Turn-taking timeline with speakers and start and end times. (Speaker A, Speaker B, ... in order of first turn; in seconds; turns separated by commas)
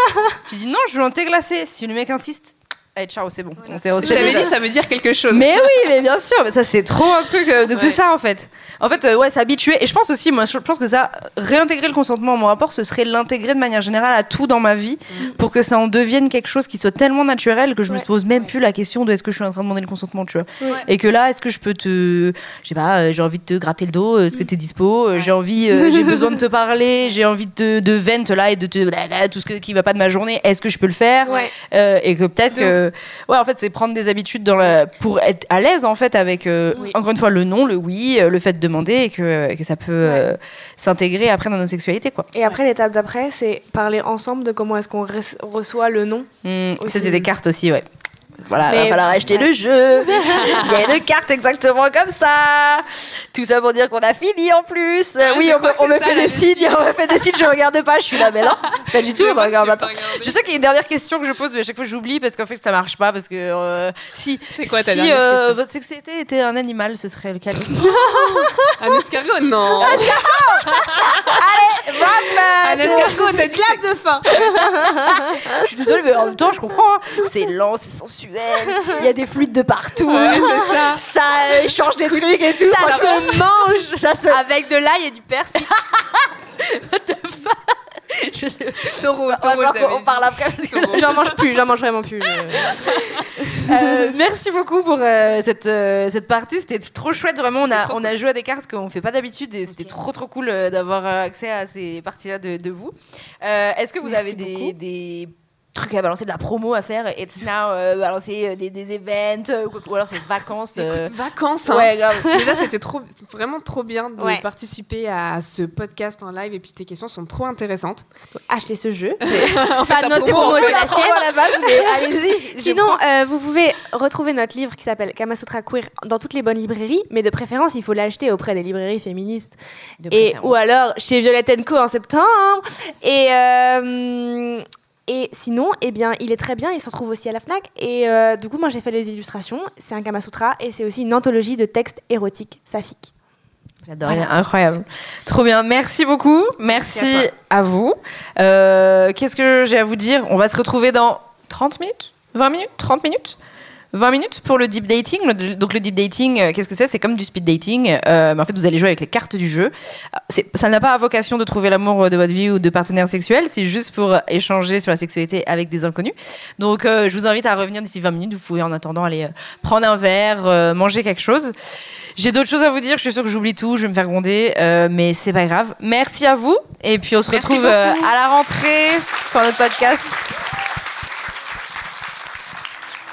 Speaker A: 0.4-4.5, Speaker B: 3.6-5.6, Speaker C: 4.0-4.5, Speaker A: 5.3-42.3, Speaker C: 25.8-26.1, Speaker B: 32.5-32.8, Speaker C: 42.3-47.2, Speaker A: 46.4-47.9, Speaker A: 48.4-68.1, Speaker C: 48.7-49.5, Speaker B: 55.2-57.3, Speaker B: 58.7-60.4, Speaker B: 64.5-65.6, Speaker C: 68.1-68.5, Speaker B: 68.8-71.2, Speaker A: 69.8-73.2, Speaker B: 72.3-73.8, Speaker C: 72.5-75.7, Speaker A: 75.6-84.4, Speaker B: 80.0-81.0, Speaker B: 82.0-83.2, Speaker C: 82.7-85.7, Speaker A: 85.6-91.3, Speaker B: 88.9-91.2, Speaker C: 90.9-94.0, Speaker A: 93.6-111.1, Speaker B: 97.6-98.1, Speaker C: 104.3-104.7, Speaker B: 110.8-118.1, Speaker A: 111.7-112.5, Speaker C: 114.2-114.4, Speaker C: 118.5-122.0, Speaker A: 119.2-123.0, Speaker B: 119.3-121.0, Speaker C: 122.6-129.6, Speaker A: 130.0-130.6, Speaker C: 130.1-143.1, Speaker A: 143.8-153.4, Speaker B: 146.7-147.3, Speaker A: 153.9-171.5, Speaker A: 172.2-180.3, Speaker C: 177.3-178.1